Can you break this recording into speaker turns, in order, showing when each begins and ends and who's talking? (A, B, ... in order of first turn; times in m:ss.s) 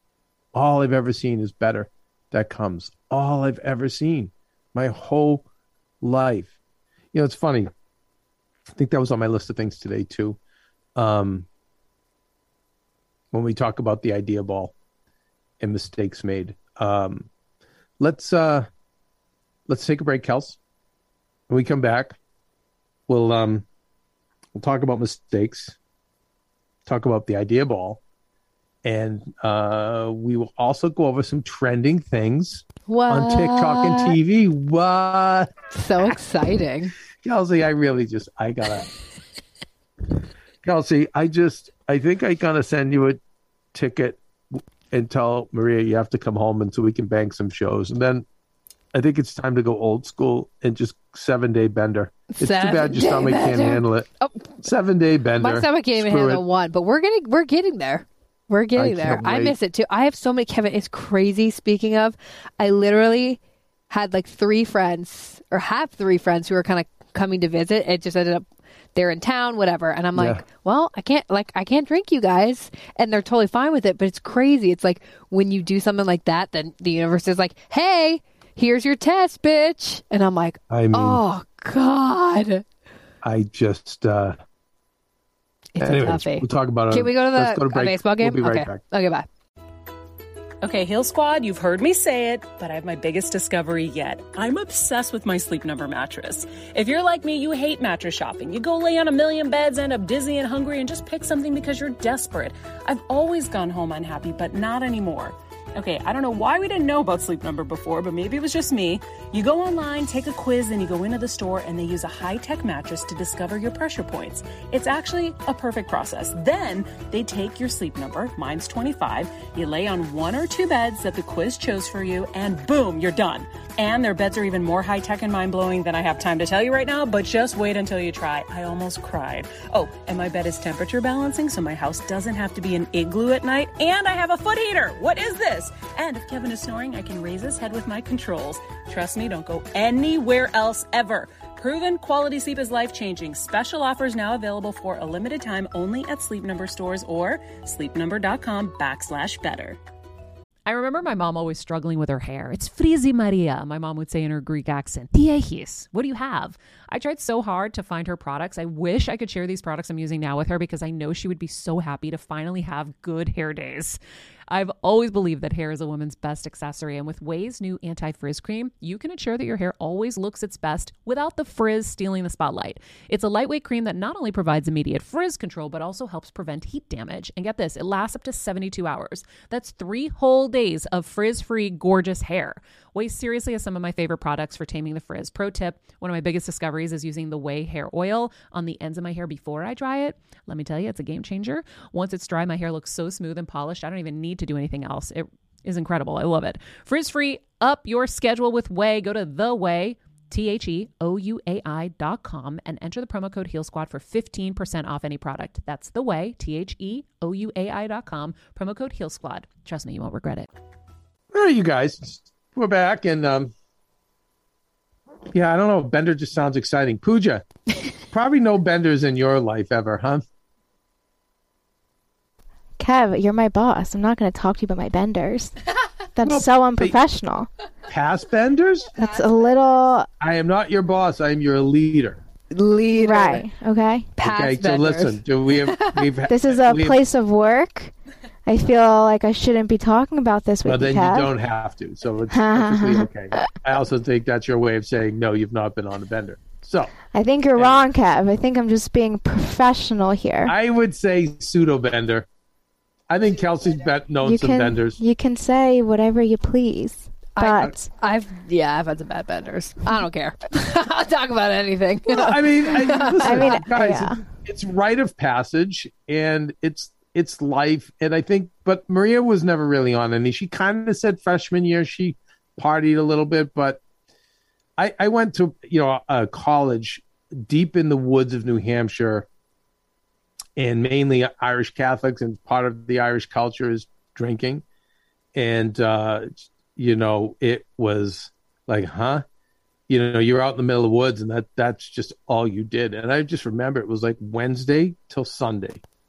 0:00.5-0:05.4 A
0:06.0-0:06.5 A
0:07.1-0:07.7 A
0:08.7-0:10.4 A
0:11.0-0:11.5 A
0:13.3-0:14.7 A
0:15.6-0:17.3 A
0:18.0-0:18.7 A
0:19.7-0:20.6 A
0:21.5-0:22.2 A
0:23.1-0:23.6 A
0:24.6-0:25.8 A
0:26.9-0:28.0 A
0:28.8-0:35.5 A
0:32.9-0:34.2 B
0:35.7-0:37.0 B
0:37.2-0:38.9 A
0:40.6-0:43.2 A
0:43.7-0:48.3 A
0:48.9-0:54.1 A
0:52.3-0:54.5 B
0:54.6-0:56.4 A
0:55.4-1:22.6 B
0:58.8-0:59.6 A
1:10.2-1:10.4 A
1:20.7-1:21.2 A
1:23.2-1:24.4 A
1:25.7-1:29.3 B
1:25.8-1:28.8 A
1:30.6-2:29.8 C
2:30.7-3:30.5 D
3:31.3-3:33.5 A
3:35.3-3:37.5 A
3:38.1-3:40.2 A
3:42.8-3:45.6 E
3:46.2-3:47.5 E
3:46.2-3:47.0 A
3:47.9-3:48.9 A
3:49.0-3:50.1 E
3:50.2-3:52.2 A
3:52.5-3:53.5 B
3:53.0-3:54.1 E
3:54.2-3:56.1 B
3:54.2-3:57.0 A
3:56.3-3:57.9 E
3:58.5-4:01.3 E
4:00.6-4:06.9 A
4:02.3-4:03.5 E
4:07.1-4:10.5 E
4:10.4-4:12.3 A
4:13.1-4:15.0 A
4:14.2-4:17.8 E
4:17.4-4:23.6 B
4:22.1-4:33.8 A
4:23.2-4:24.2 E
4:34.8-4:39.3 A
4:40.6-4:44.6 A
4:45.4-4:49.2 A
4:49.9-4:55.8 A